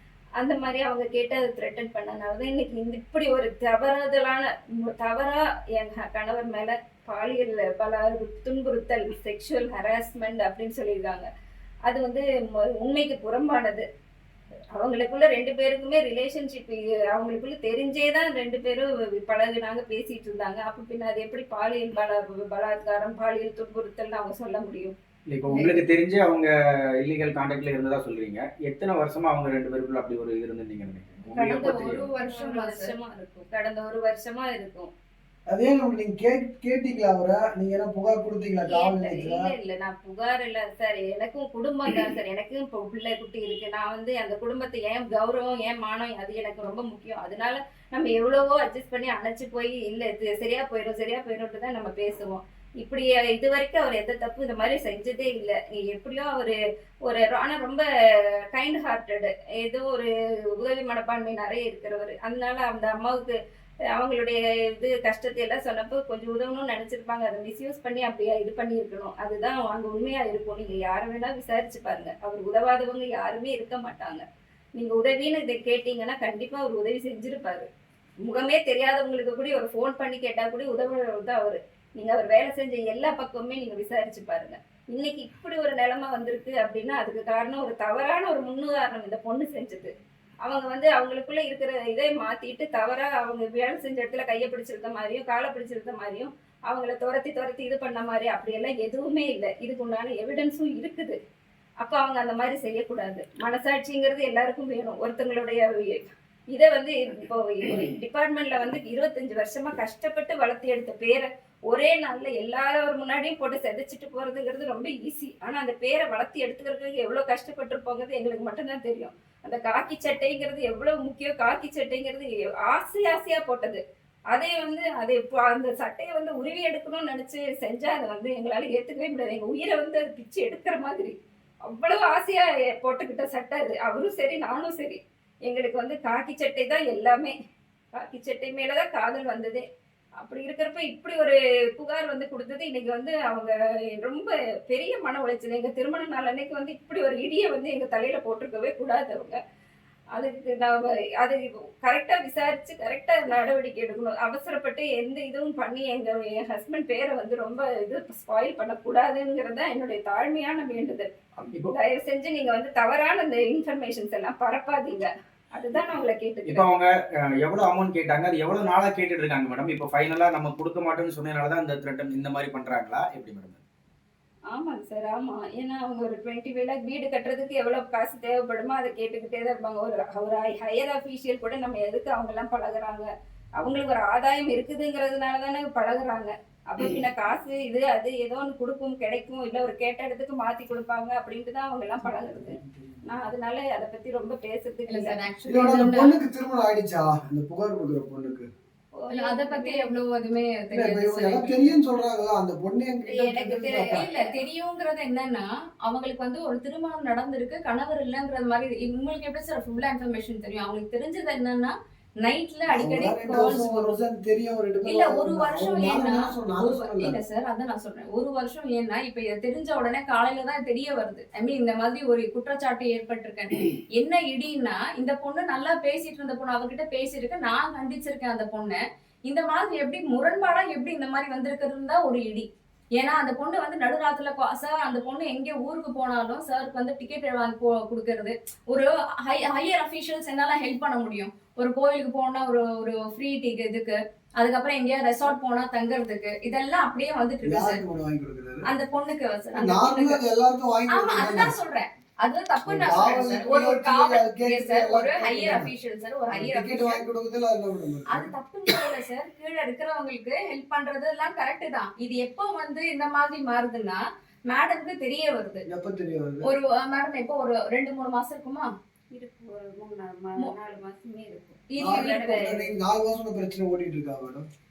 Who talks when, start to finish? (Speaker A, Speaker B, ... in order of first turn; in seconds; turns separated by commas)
Speaker A: 0.4-11.3, Speaker A: 11.8-13.8, Speaker A: 14.7-24.9, Speaker B: 25.3-26.5, Speaker C: 25.5-25.8, Speaker B: 27.0-32.1, Speaker A: 31.3-34.9, Speaker C: 31.6-33.0, Speaker D: 35.5-39.5, Speaker A: 38.7-57.8, Speaker A: 58.5-63.3, Speaker A: 63.9-74.2, Speaker A: 74.8-77.7, Speaker A: 78.2-89.9, Speaker A: 90.4-101.1, Speaker A: 101.8-106.0, Speaker A: 106.5-131.1, Speaker A: 131.7-137.3, Speaker A: 137.9-139.6, Speaker A: 140.2-149.4, Speaker A: 150.1-161.1, Speaker B: 161.4-161.7, Speaker A: 161.6-166.7, Speaker B: 166.4-173.6, Speaker A: 174.5-195.2, Speaker C: 194.9-196.2, Speaker D: 195.5-198.5, Speaker A: 198.9-200.0, Speaker C: 199.1-201.6, Speaker D: 200.7-204.1, Speaker A: 203.0-204.4, Speaker C: 203.9-214.0, Speaker D: 212.7-217.2, Speaker C: 214.8-247.8, Speaker D: 247.4-248.6, Speaker C: 248.7-250.2, Speaker D: 249.5-251.5, Speaker C: 250.9-257.0, Speaker D: 252.6-255.7, Speaker D: 256.3-258.3, Speaker C: 258.1-265.6, Speaker D: 265.7-266.5, Speaker C: 266.4-268.7, Speaker A: 269.1-272.7, Speaker C: 271.7-272.5, Speaker D: 271.8-274.4